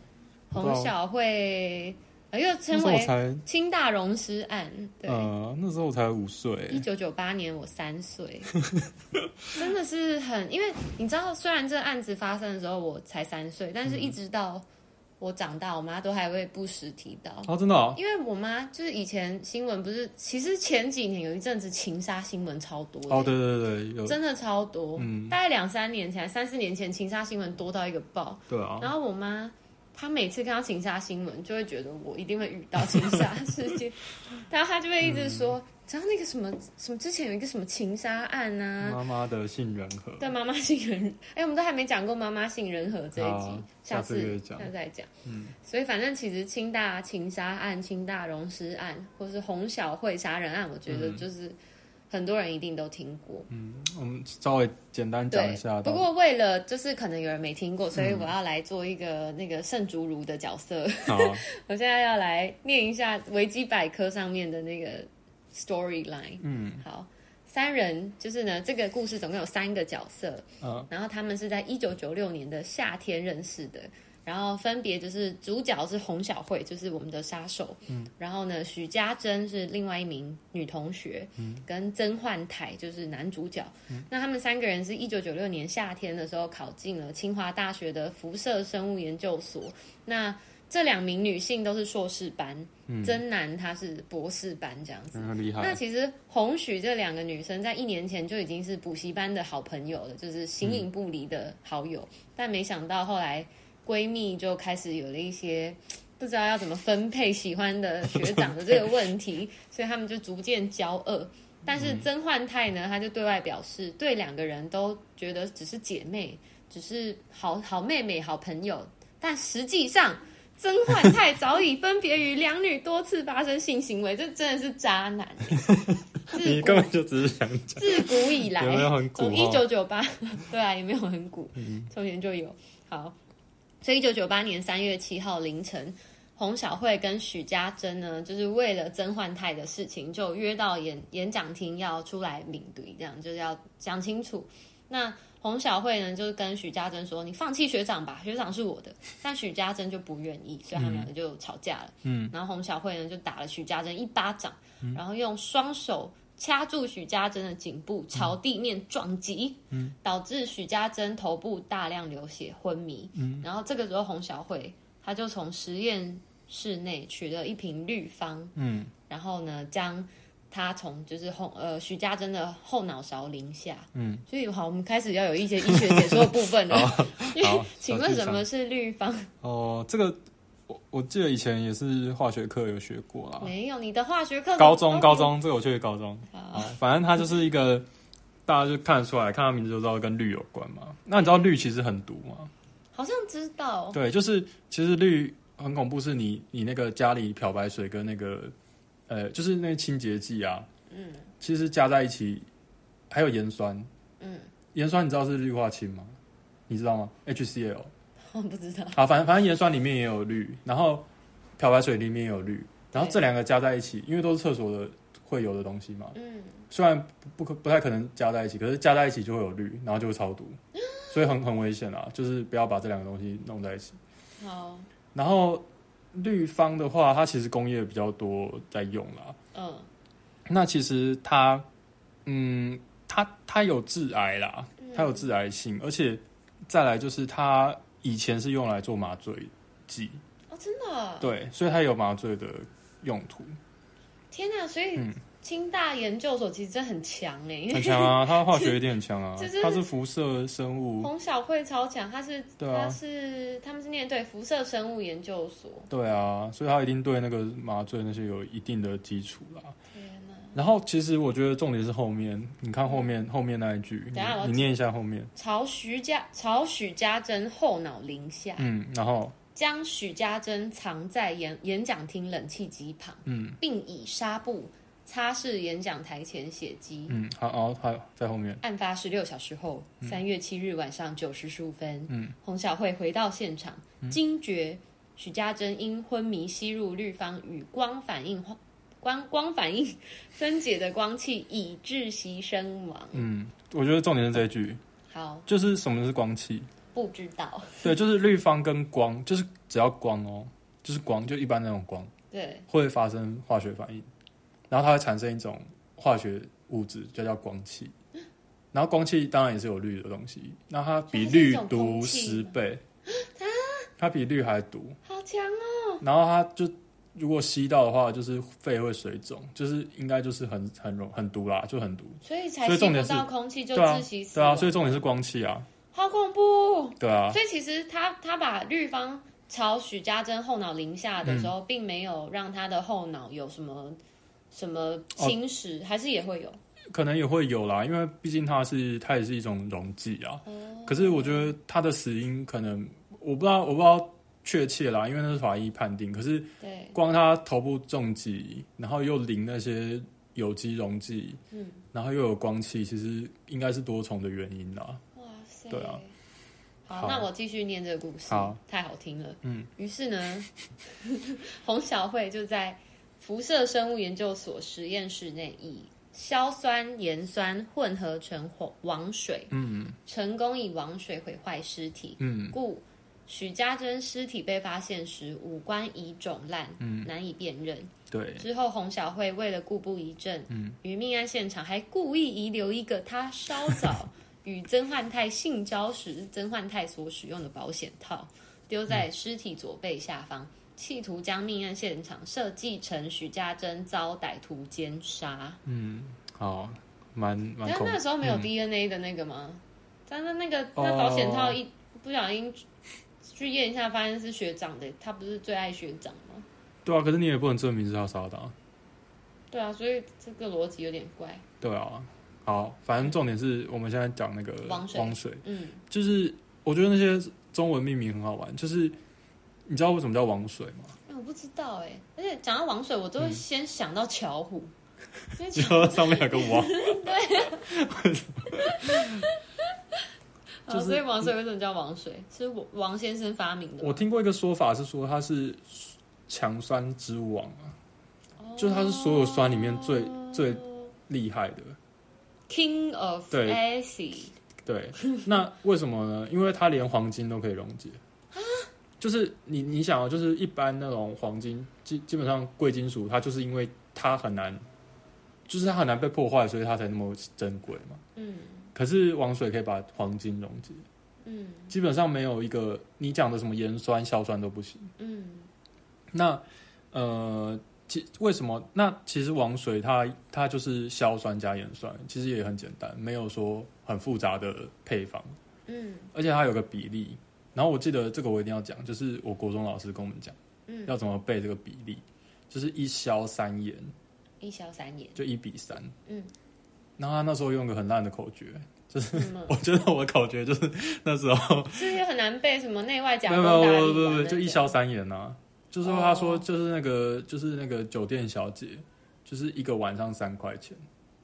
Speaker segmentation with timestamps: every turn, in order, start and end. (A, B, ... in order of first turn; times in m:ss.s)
0:00.5-0:05.3 A
0:00.6-0:00.9 B
0:02.7-0:03.5 B
0:05.1-0:06.9 B
0:06.7-0:08.5 A
0:09.6-0:14.7 A
0:13.9-0:14.2 B
0:15.2-0:23.4 A
0:17.5-0:18.0 B
0:23.1-0:24.2 B
0:24.0-0:39.0 A
0:25.0-0:25.4 B
0:28.5-0:28.9 B
0:32.9-0:33.4 B
0:35.0-0:35.6 B
0:38.8-0:40.3 B
0:40.2-0:45.1 A
0:43.2-0:44.7 B
0:45.2-0:45.6 B
0:45.6-0:51.6 A
0:50.9-0:51.2 B
0:52.1-0:53.5 A
0:53.5-0:56.1 B
0:55.3-2:05.7 A
0:58.0-0:58.3 B
1:01.1-1:01.4 B
1:06.4-1:06.8 B
1:10.6-1:10.9 B
1:21.4-1:21.6 B
1:32.9-1:33.2 B
1:35.1-1:35.8 B
1:40.6-1:40.9 B
1:48.1-1:48.5 B
1:51.7-1:52.1 B
2:05.5-2:09.7 B
2:06.3-2:06.9 A
2:07.8-2:13.2 A
2:11.6-2:11.9 B
2:13.8-2:48.6 A
2:30.7-2:31.1 B
2:32.0-2:32.3 B
2:39.7-2:40.0 B
2:43.2-2:43.5 B
2:48.6-2:48.9 B
2:49.1-2:59.3 A
2:54.0-2:54.2 B
2:55.6-2:58.5 B
2:59.4-3:03.5 B
3:03.4-3:05.4 A
3:04.6-3:07.9 B
3:06.3-3:06.7 A
3:08.5-3:12.5 B
3:12.9-3:14.0 A
3:13.9-3:18.5 B
3:19.1-3:20.7 B
3:20.9-3:21.3 A
3:21.4-3:22.5 B
3:23.1-3:23.9 B
3:24.2-3:24.5 A
3:24.8-3:26.2 B
3:26.7-3:27.9 B
3:28.3-3:29.0 A
3:29.0-3:31.1 B
3:31.6-3:36.2 B
3:32.9-3:33.3 A
3:36.2-3:36.6 A
3:36.7-3:40.6 B
3:40.8-3:41.2 A
3:41.1-3:44.0 B
3:44.4-3:44.9 A
3:45.2-3:49.4 B
3:49.5-3:49.9 A
3:50.5-3:51.7 B
3:52.3-4:00.2 B
3:54.8-3:55.3 A
4:00.5-4:01.3 A
4:01.2-4:03.6 B
4:04.3-4:08.8 A
4:07.7-4:11.1 B
4:09.4-4:09.8 A
4:11.0-4:15.9 A
4:12.6-4:13.0 B
4:15.9-4:19.8 B
4:19.9-4:20.6 A
4:20.6-4:25.3 B
4:24.1-4:24.8 A
4:25.4-4:28.7 A
4:28.6-4:29.4 B
4:29.6-4:37.2 A
4:33.3-4:33.6 B
4:37.1-4:38.6 B
4:38.6-4:53.3 A
4:42.1-4:42.4 B
4:53.1-4:54.8 B
4:55.1-4:55.5 A
4:55.5-4:56.7 B
4:56.9-4:57.9 A
4:57.8-5:02.1 B
5:02.3-5:02.7 A
5:02.7-5:04.1 B
5:04.7-5:07.9 B
5:08.7-5:12.8 B
5:11.1-5:12.6 A
5:13.1-5:13.9 A
5:14.0-5:15.0 B
5:15.0-5:16.0 A
5:16.0-5:25.7 B
5:22.2-5:25.0 A
5:25.9-5:34.0 A
5:27.0-5:27.4 B
5:31.2-5:31.5 B
5:34.5-5:36.6 A
5:36.9-5:51.4 B
5:40.5-5:41.5 A
5:46.6-5:47.0 A
5:51.5-5:51.8 A
5:51.9-5:55.0 B
5:55.2-5:56.1 A
5:55.7-5:56.0 B
5:56.9-6:09.5 A
5:56.9-5:57.3 B
5:58.3-5:58.6 B
5:59.4-5:59.7 B
6:09.5-6:10.0 B
6:10.0-6:35.6 A
6:12.2-6:12.6 B
6:16.8-6:17.1 B
6:18.1-6:18.5 B
6:20.5-6:20.8 B
6:35.7-6:38.5 B
6:37.6-6:42.6 A
6:40.8-6:41.6 B
6:43.2-6:46.5 A
6:46.8-6:48.6 B
6:49.5-6:51.4 A
6:51.6-6:59.0 B
6:54.6-6:55.8 A
6:59.7-7:01.0 B
7:01.1-7:04.7 A
7:05.4-7:07.7 A
7:05.5-7:09.2 B
7:08.8-7:09.3 A
7:10.7-7:14.0 A
7:10.7-7:11.3 B
7:13.8-7:17.8 B
7:18.4-7:20.9 A
7:18.6-7:21.8 B
7:22.5-7:24.3 A
7:23.3-7:23.6 B
7:24.6-7:28.0 B
7:28.3-7:28.7 A
7:29.0-7:34.6 B
7:35.5-7:38.0 B
7:38.2-7:38.7 A
7:38.8-7:40.8 B
7:41.2-7:41.7 A
7:41.7-7:44.9 B
7:45.0-7:45.5 A
7:46.1-7:55.4 B
7:55.7-7:56.1 A
7:56.1-8:00.4 B
8:00.7-8:00.9 A
8:00.9-8:03.9 B
8:04.4-8:05.2 A
8:05.2-8:05.9 B
8:06.0-8:06.3 A
8:07.0-8:11.9 B
8:09.1-8:09.6 A
8:11.7-8:14.7 A
8:13.3-8:20.8 B
8:15.8-8:16.5 A